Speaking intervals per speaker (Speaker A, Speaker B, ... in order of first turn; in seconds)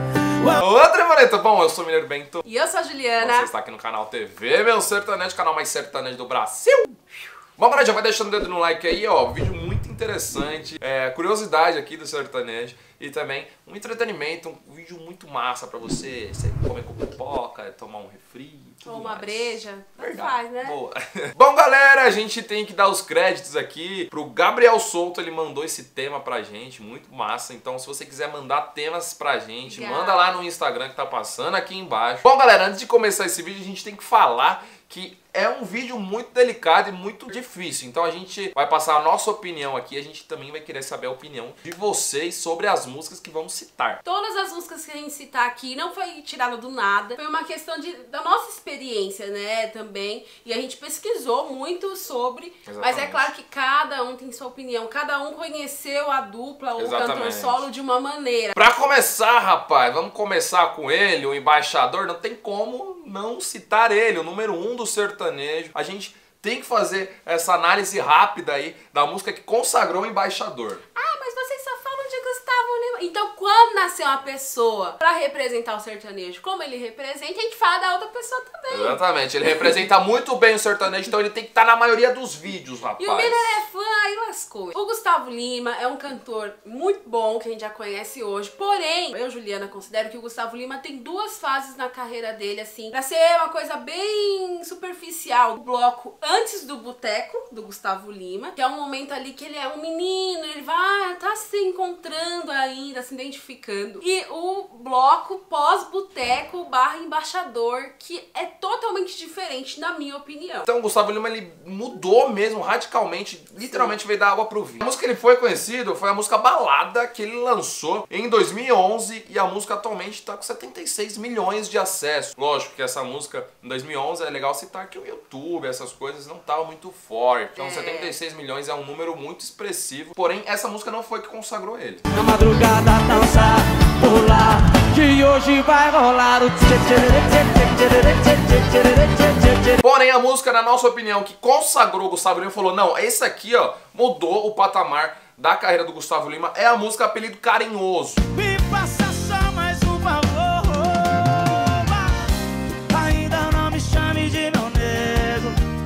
Speaker A: 0.6-2.5, 3.2-6.9, 7.6-44.0, 52.7-53.3, 56.8-57.7, 58.5-70.8, 78.7-83.6, 110.7-132.0, 139.8-148.2
Speaker B: 2.5-3.5, 18.9-20.8, 29.7-30.4, 44.0-58.6, 71.0-79.0, 83.0-110.7, 113.7-114.0, 127.6-128.2
Speaker C: 132.1-139.8, 148.3-152.3, 152.9-155.6